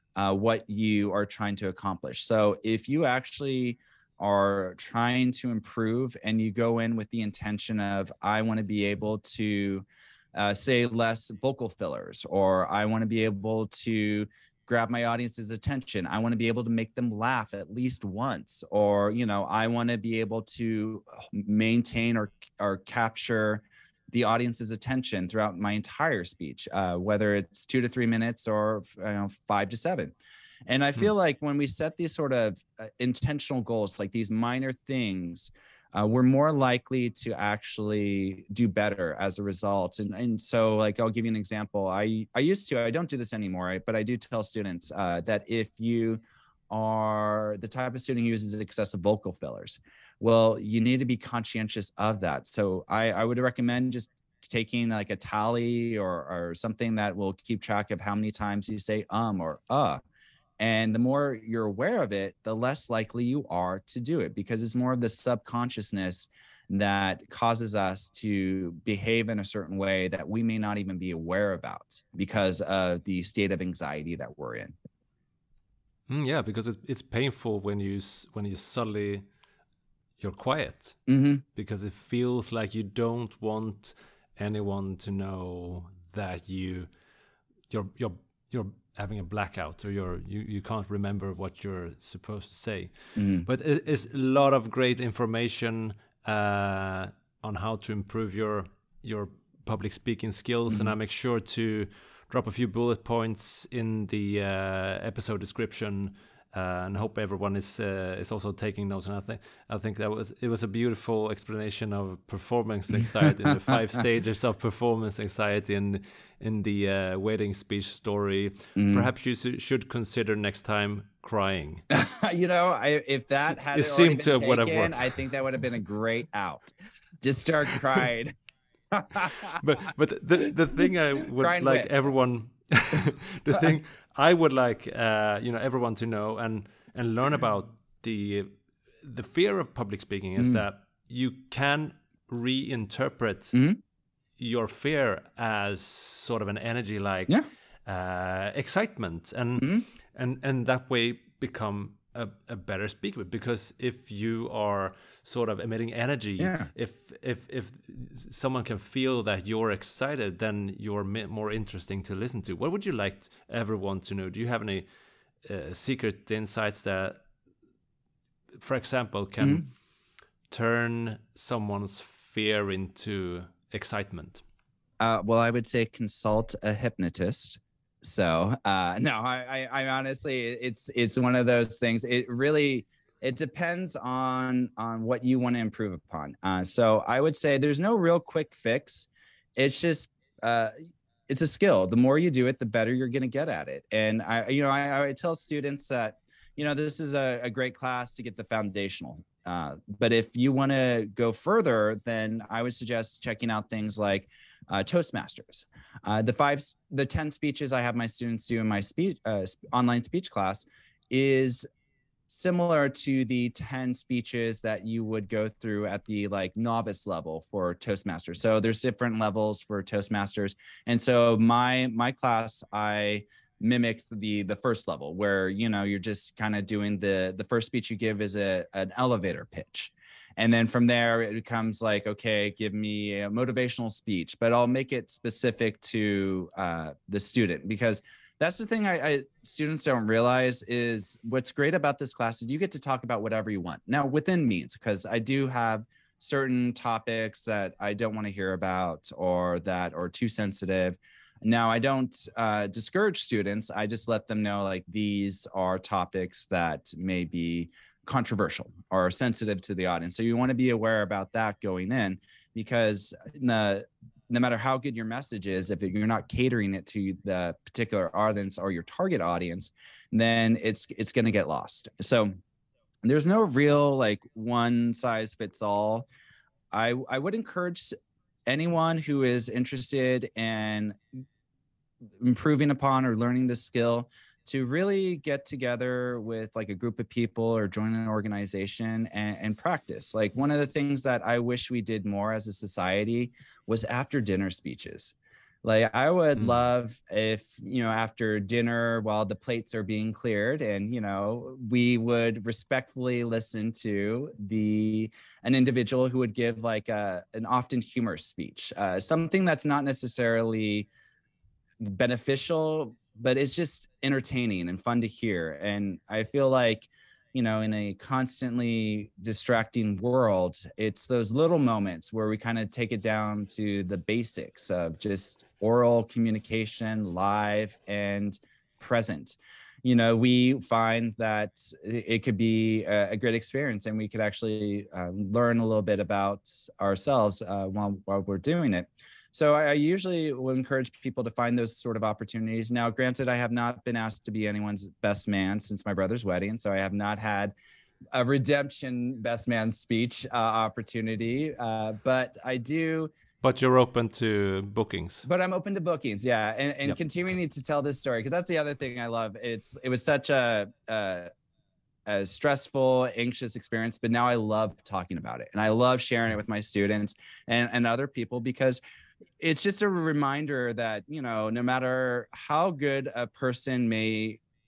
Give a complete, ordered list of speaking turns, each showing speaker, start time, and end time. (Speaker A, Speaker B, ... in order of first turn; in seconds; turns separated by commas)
Speaker A: 0.1-30.1, Speaker A: 30.7-60.0, Speaker A: 60.6-74.7, Speaker B: 76.1-79.2, Speaker B: 80.2-81.0, Speaker A: 81.1-81.4, Speaker B: 81.5-86.9, Speaker B: 87.7-121.8, Speaker A: 93.2-93.5, Speaker A: 113.0-113.5, Speaker A: 118.8-119.1, Speaker A: 121.9-128.3, Speaker B: 123.3-125.1, Speaker A: 128.9-129.6, Speaker B: 129.6-143.6, Speaker A: 131.4-131.9, Speaker A: 143.5-143.8, Speaker B: 144.4-164.9, Speaker A: 149.6-149.8, Speaker A: 156.4-156.7, Speaker B: 165.4-167.2, Speaker B: 168.5-169.7, Speaker B: 170.5-174.4, Speaker A: 175.0-190.7, Speaker A: 191.3-211.6, Speaker A: 212.3-272.3, Speaker A: 273.0-276.1, Speaker A: 276.7-277.9, Speaker A: 278.4-280.9, Speaker A: 282.2-310.9, Speaker A: 311.8-347.5, Speaker A: 348.1-353.1, Speaker B: 353.4-355.3, Speaker A: 355.2-361.3, Speaker A: 362.1-368.8, Speaker A: 369.4-374.4